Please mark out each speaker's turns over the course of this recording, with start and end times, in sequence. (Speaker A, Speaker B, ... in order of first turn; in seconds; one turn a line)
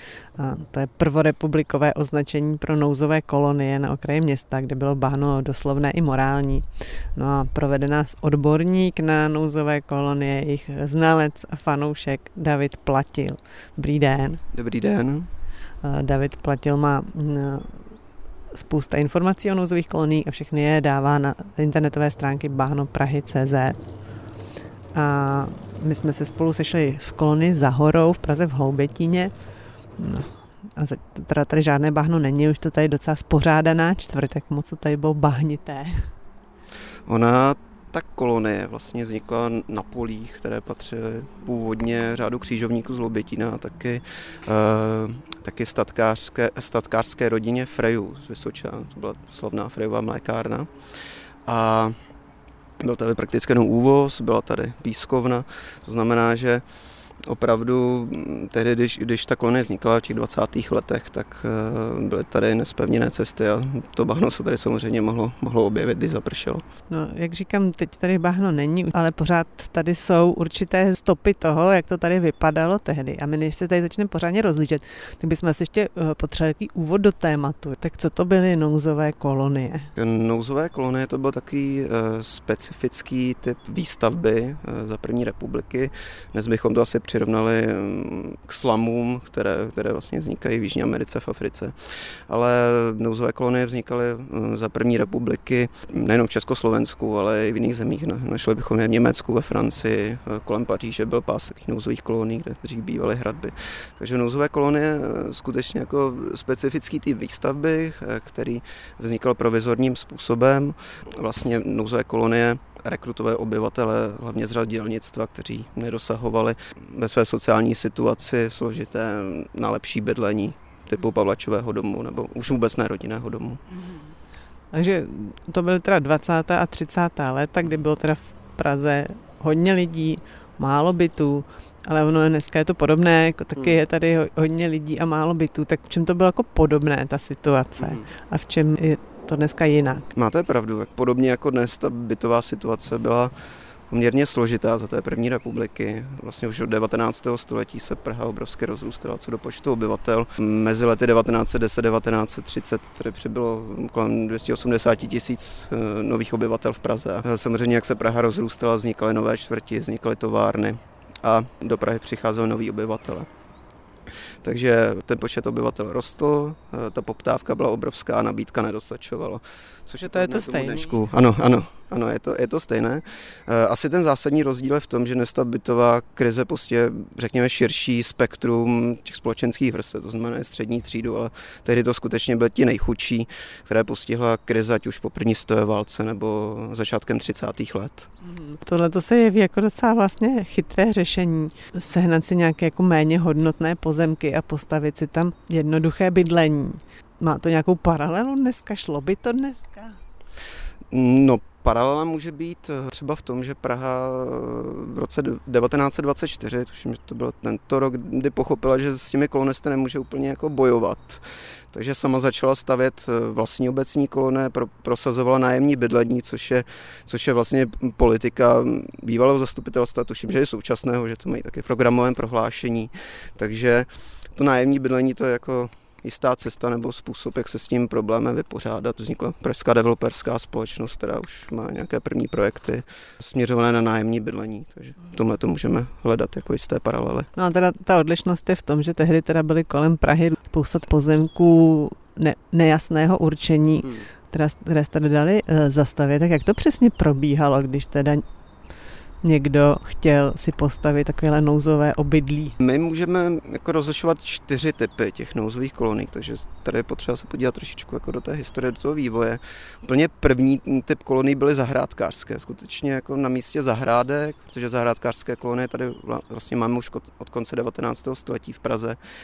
Speaker A: 0.4-14.4
Speaker B: 14.5-15.3
Speaker A: 15.8-17.8
Speaker A: 18.5-23.8
Speaker A: 24.9-29.3
Speaker A: 30.0-36.1
Speaker B: 37.1-50.7
Speaker B: 51.4-52.0
Speaker B: 52.8-56.6
Speaker B: 57.2-66.6
Speaker A: 66.9-79.9
Speaker B: 80.0-91.8
Speaker B: 92.3-123.6
Speaker A: 124.7-140.1
Speaker B: 137.8-138.1
Speaker B: 140.1-143.3
Speaker B: 143.9-163.3
Speaker B: 164.4-188.1
Speaker A: 170.0-171.0
Speaker A: 188.2-200.0
Speaker B: 200.9-237.3
Speaker A: 237.3-248.2
Speaker A: 249.2-252.6
Speaker B: 252.6-269.0